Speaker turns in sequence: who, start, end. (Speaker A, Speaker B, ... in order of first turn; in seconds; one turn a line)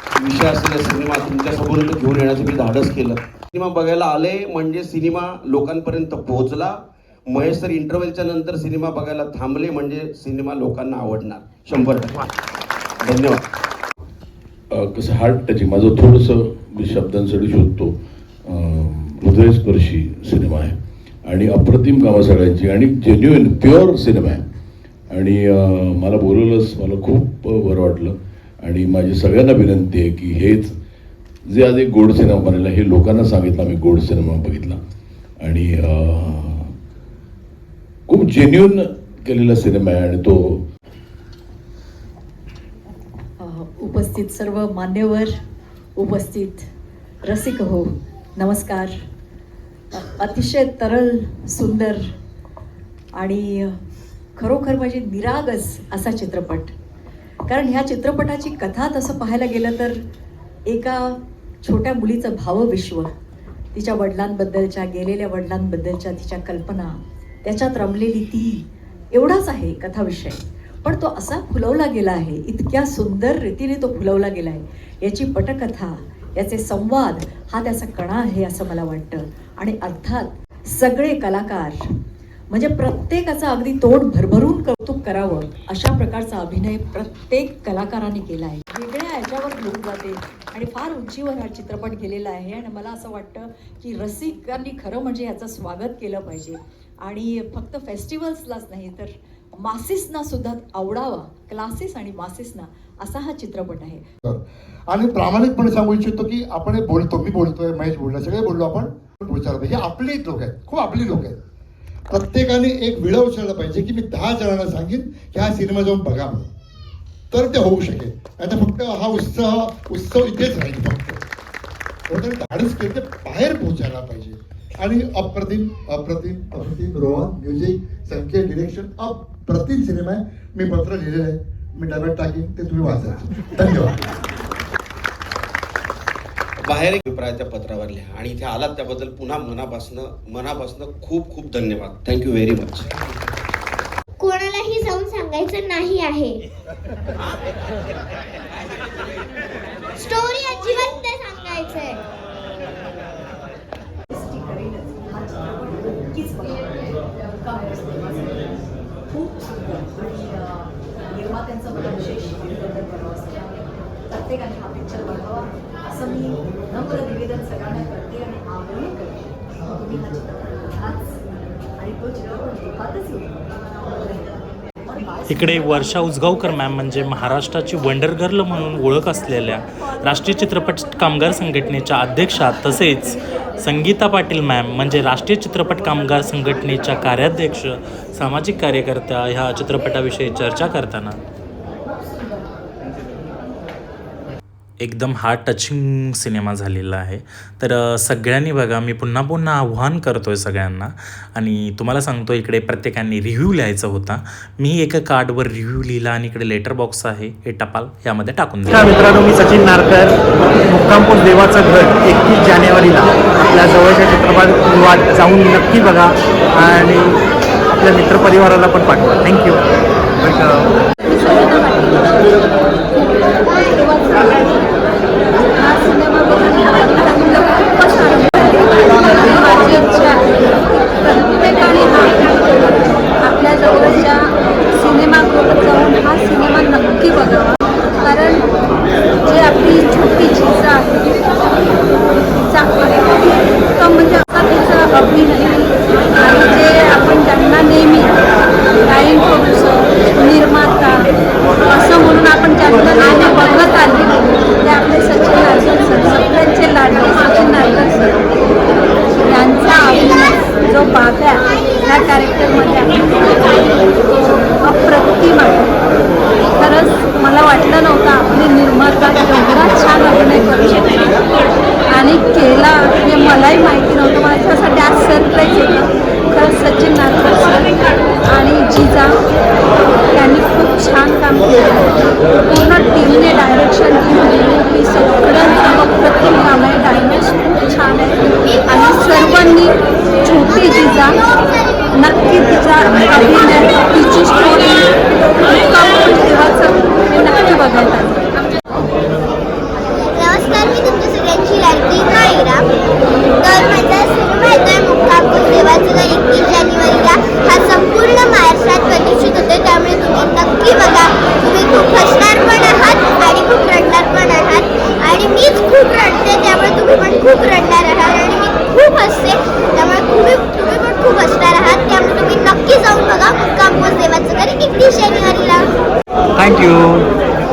Speaker A: 0.2-6.7
Speaker A: 7.3-12.3
Speaker A: 13.0-13.4
Speaker B: 14.7-24.4
Speaker B: 25.1-30.8
Speaker B: 31.5-34.8
Speaker B: 35.4-36.8
Speaker B: 38.1-40.7
Speaker C: 43.4-45.4
Speaker C: 46.0-46.7
Speaker C: 47.3-49.0
Speaker C: 49.9-52.1
Speaker C: 53.2-53.8
Speaker C: 54.4-56.7
Speaker C: 57.5-60.0
Speaker C: 60.7-63.1
Speaker C: 63.7-81.8
Speaker C: 82.5-104.1
Speaker D: 104.2-111.4
Speaker D: 112.1-116.5
Speaker D: 117.3-121.2
Speaker D: 122.1-134.0
Speaker A: 136.7-142.9
Speaker E: 144.2-146.4
Speaker E: 150.0-152.0
Speaker C: 154.1-158.6
Speaker C: 159.1-175.9
Speaker F: 175.3-191.2
Speaker F: 194.8-209.0
Speaker G: 208.8-210.2
Speaker G: 210.7-217.2
Speaker G: 217.8-219.6
Speaker G: 220.2-220.7
Speaker H: 221.0-222.3
Speaker E: 223.5-223.8
Speaker H: 223.7-224.6
Speaker H: 225.5-238.4
Speaker H: 239.2-241.4
Speaker H: 242.4-248.1
Speaker H: 248.9-251.1
Speaker H: 251.6-258.2
Speaker H: 259.2-263.9
Speaker H: 264.6-265.8
Speaker H: 266.5-271.3
Speaker H: 271.9-279.1
Speaker H: 280.1-291.2
Speaker E: 288.5-289.6
Speaker E: 290.4-291.9
Speaker H: 291.9-298.2
Speaker E: 300.0-302.7
Speaker E: 303.4-325.7
Speaker G: 326.4-327.0